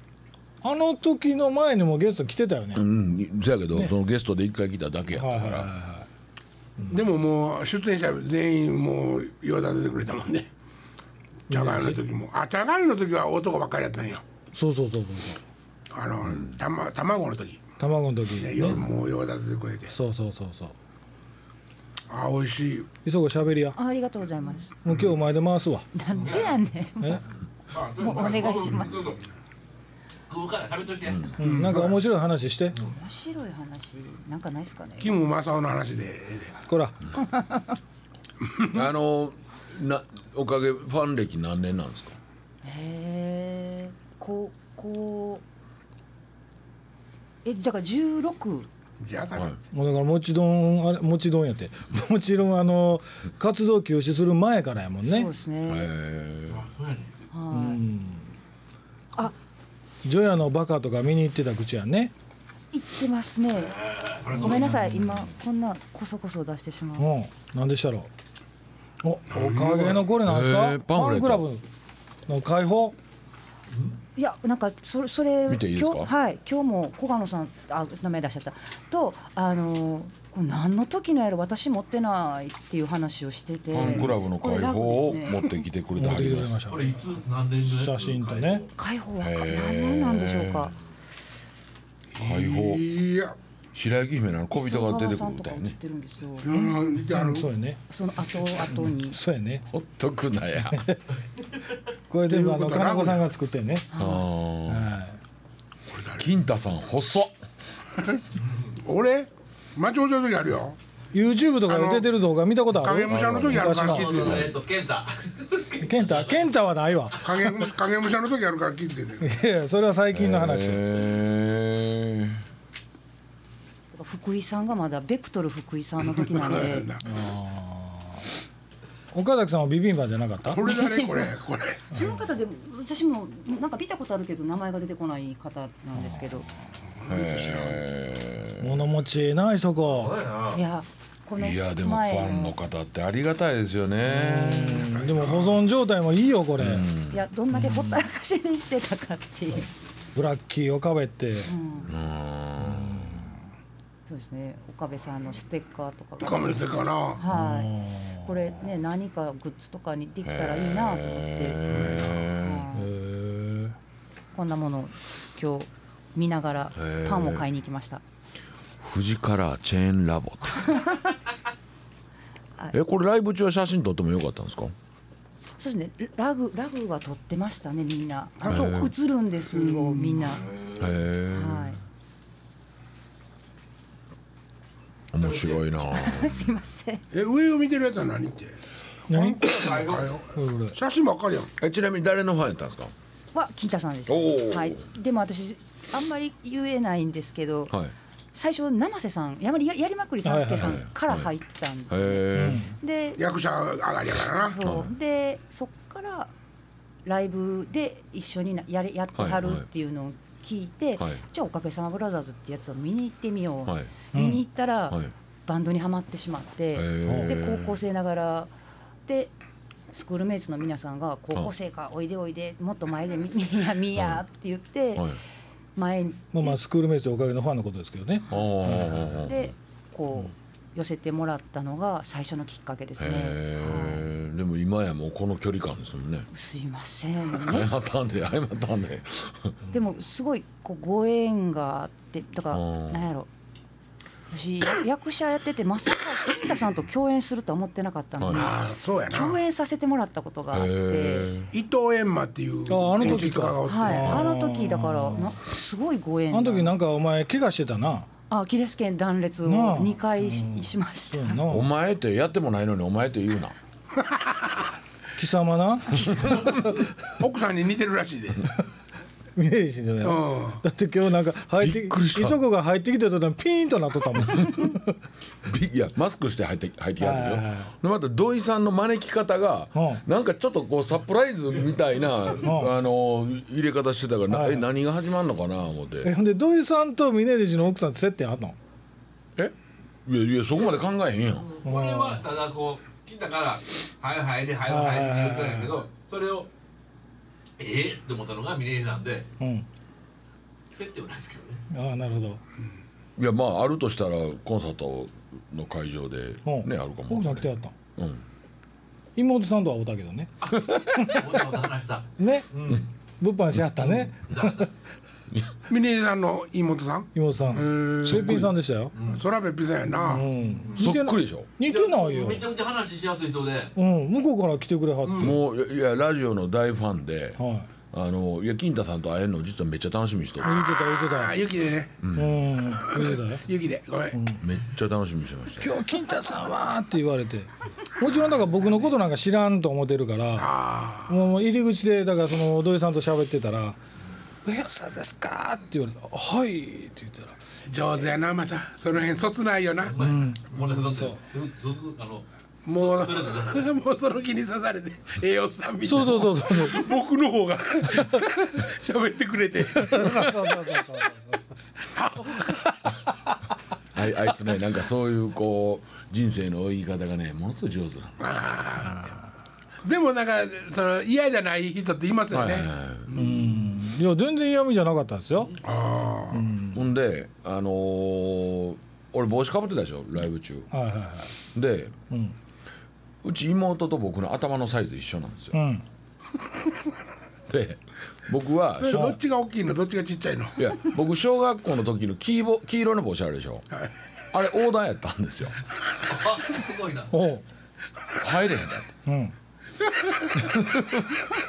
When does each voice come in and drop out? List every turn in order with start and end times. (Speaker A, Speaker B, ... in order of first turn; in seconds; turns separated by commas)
Speaker A: 0.6-2.8, Speaker B: 2.7-5.7, Speaker A: 5.1-6.1, Speaker C: 6.9-10.5, Speaker A: 11.5-12.0, Speaker C: 11.5-14.2, Speaker A: 14.5-15.4, Speaker C: 15.9-17.6, Speaker A: 17.8-18.8, Speaker C: 18.4-19.9, Speaker A: 19.9-20.8, Speaker C: 22.1-22.9, Speaker A: 23.1-23.8, Speaker D: 23.7-24.7, Speaker A: 24.8-25.9, Speaker D: 25.9-27.2, Speaker E: 26.1-26.6, Speaker E: 27.7-29.2, Speaker D: 28.0-29.1, Speaker E: 30.3-31.4, Speaker A: 31.4-32.8, Speaker C: 31.4-32.0, Speaker D: 32.8-35.1, Speaker C: 35.0-36.6, Speaker A: 36.7-37.0, Speaker D: 37.2-37.8, Speaker B: 38.7-42.2, Speaker D: 42.6-45.4, Speaker D: 47.5-48.7, Speaker C: 49.0-49.6, Speaker A: 49.7-55.3, Speaker D: 55.0-55.9, Speaker B: 55.7-56.7, Speaker E: 56.5-57.1, Speaker D: 57.3-57.8, Speaker A: 57.5-58.3, Speaker A: 60.0-62.1, Speaker D: 62.7-67.1, Speaker E: 64.2-64.9, Speaker A: 67.0-68.1, Speaker A: 69.0-71.6, Speaker C: 69.3-70.1, Speaker B: 70.2-71.5, Speaker A: 72.3-73.0, Speaker D: 74.2-85.7, Speaker B: 75.5-76.1, Speaker B: 83.7-86.6, Speaker A: 86.0-87.0, Speaker E: 86.7-88.7, Speaker A: 87.7-88.6, Speaker D: 88.8-90.8, Speaker B: 89.2-90.7, Speaker C: 92.1-93.3, Speaker B: 92.2-92.9, Speaker B: 93.7-95.8, Speaker D: 94.5-96.5, Speaker C: 96.4-97.5, Speaker A: 96.5-97.8, Speaker D: 97.9-99.2, Speaker A: 98.7-99.7, Speaker B: 99.7-100.8, Speaker A: 100.6-101.0, Speaker A: 102.1-103.9, Speaker C: 102.3-103.3, Speaker D: 103.9-104.2, Speaker B: 104.0-104.9, Speaker A: 104.7-105.2, Speaker C: 105.9-106.3, Speaker B: 106.2-107.3, Speaker C: 108.8-110.8, Speaker A: 111.1-114.4, Speaker C: 111.7-112.1, Speaker C: 112.7-114.6, Speaker B: 113.1-113.7, Speaker E: 113.8-116.4, Speaker A: 115.8-117.7, Speaker C: 117.2-119.3, Speaker A: 119.2-120.8, Speaker B: 120.1-122.4, Speaker D: 123.9-126.9, Speaker C: 126.2-127.1, Speaker A: 127.0-128.2, Speaker A: 129.1-130.6, Speaker C: 130.4-131.9, Speaker D: 130.6-131.3, Speaker D: 131.9-136.5, Speaker A: 136.0-136.6, Speaker C: 137.0-137.8, Speaker B: 137.1-138.9, Speaker A: 138.6-140.2, Speaker E: 140.0-140.6, Speaker D: 140.5-142.6, Speaker B: 141.4-145.0, Speaker A: 144.1-146.9, Speaker C: 144.9-145.6, Speaker B: 146.6-147.2, Speaker D: 147.1-149.7, Speaker A: 147.5-148.0, Speaker A: 150.1-151.5, Speaker D: 151.4-151.9, Speaker B: 151.9-153.3, Speaker A: 152.6-153.4, Speaker D: 154.1-161.6, Speaker C: 156.2-157.2, Speaker A: 157.3-158.4, Speaker B: 160.3-162.7, Speaker C: 161.7-162.2, Speaker D: 162.2-162.9, Speaker A: 162.7-163.8, Speaker D: 164.3-168.0, Speaker B: 166.8-167.5, Speaker B: 168.8-170.7, Speaker D: 170.6-171.1, Speaker B: 172.7-174.7, Speaker D: 175.6-180.5, Speaker C: 178.4-178.9, Speaker B: 178.5-178.9, Speaker C: 179.5-180.3, Speaker B: 180.8-181.7, Speaker D: 181.3-181.8, Speaker B: 185.1-186.5, Speaker E: 185.3-185.6, Speaker D: 185.8-187.0, Speaker C: 187.1-188.6, Speaker A: 189.1-189.8, Speaker C: 189.1-191.5, Speaker E: 189.6-190.1, Speaker A: 190.3-190.8, Speaker B: 191.6-192.9, Speaker D: 193.3-197.8, Speaker B: 194.1-194.8, Speaker D: 198.3-203.2, Speaker A: 200.2-200.8, Speaker B: 200.6-201.3, Speaker B: 201.9-202.7, Speaker A: 202.3-202.7, Speaker C: 203.2-204.6, Speaker D: 204.4-206.3, Speaker B: 204.6-204.9, Speaker D: 207.1-218.5, Speaker B: 209.2-209.7, Speaker A: 214.1-214.4, Speaker B: 216.8-217.8, Speaker A: 217.0-217.3, Speaker D: 219.1-219.3, Speaker D: 219.9-225.2, Speaker B: 224.0-224.2, Speaker D: 225.8-226.6, Speaker A: 226.3-229.3, Speaker B: 228.3-229.5, Speaker D: 229.2-234.1, Speaker B: 233.0-236.3, Speaker D: 236.3-237.9, Speaker B: 237.4-239.6, Speaker D: 239.7-243.3, Speaker B: 242.5-243.1, Speaker D: 244.3-248.6, Speaker B: 248.2-248.5, Speaker C: 248.3-249.4, Speaker D: 249.1-251.3, Speaker B: 250.5-251.5, Speaker C: 251.5-254.3, Speaker A: 252.7-255.3, Speaker D: 253.7-256.8, Speaker A: 256.3-258.1, Speaker D: 258.3-261.4, Speaker A: 259.4-261.7, Speaker B: 261.5-263.6, Speaker A: 265.2-266.5, Speaker D: 266.1-266.5, Speaker C: 267.2-268.5, Speaker A: 269.4-274.9, Speaker C: 270.0-270.6, Speaker B: 271.6-272.4, Speaker B: 274.2-274.7, Speaker B: 275.4-286.1, Speaker A: 277.0-277.7, Speaker A: 279.8-280.0, Speaker A: 282.4-282.7, Speaker A: 284.3-284.7, Speaker A: 286.0-288.6, Speaker B: 290.1-291.5, Speaker E: 291.4-296.5, Speaker A: 291.6-292.3, Speaker A: 294.7-295.8, Speaker E: 297.6-299.3, Speaker A: 299.4-299.7, Speaker E: 300.7-301.6, Speaker A: 301.7-302.4, Speaker B: 303.2-308.2, Speaker A: 306.4-307.7, Speaker A: 309.2-310.3, Speaker E: 310.4-312.9, Speaker B: 310.6-311.1, Speaker A: 311.0-311.6, Speaker A: 312.2-312.5, Speaker A: 313.2-314.7, Speaker E: 314.3-314.7, Speaker C: 315.7-318.5, Speaker A: 317.1-318.9, Speaker E: 318.9-319.2, Speaker C: 319.1-320.3, Speaker A: 320.0-322.5, Speaker B: 320.8-321.5, Speaker E: 321.6-323.7, Speaker A: 323.8-325.4, Speaker B: 325.2-327.4, Speaker A: 327.4-327.7, Speaker B: 327.9-330.7, Speaker A: 330.4-331.4, Speaker C: 330.4-332.0, Speaker B: 332.0-332.5, Speaker A: 332.1-333.4, Speaker C: 332.8-334.4, Speaker A: 334.1-334.4, Speaker B: 334.4-335.8, Speaker A: 335.6-340.5, Speaker C: 340.4-341.2, Speaker A: 341.1-343.8, Speaker A: 344.4-347.4, Speaker C: 347.7-350.0, Speaker E: 349.9-352.2, Speaker A: 350.0-351.2, Speaker C: 352.6-360.9, Speaker E: 352.8-353.7, Speaker A: 355.8-357.0, Speaker A: 357.9-358.2, Speaker A: 359.8-361.4, Speaker C: 361.9-362.5, Speaker B: 363.9-368.4, Speaker C: 368.2-369.1, Speaker C: 369.8-373.6, Speaker B: 372.3-373.1, Speaker A: 373.1-375.6, Speaker C: 375.6-376.5, Speaker A: 376.3-376.8, Speaker B: 376.7-380.7, Speaker A: 380.7-381.3, Speaker B: 381.5-381.9, Speaker B: 383.2-385.6, Speaker A: 385.5-385.8, Speaker B: 387.5-389.2, Speaker C: 388.8-390.6, Speaker A: 388.9-389.2, Speaker B: 390.6-393.7, Speaker B: 394.3-395.6, Speaker E: 396.1-397.1, Speaker A: 397.1-397.4, Speaker B: 398.2-398.9, Speaker A: 399.1-399.3, Speaker B: 400.4-401.2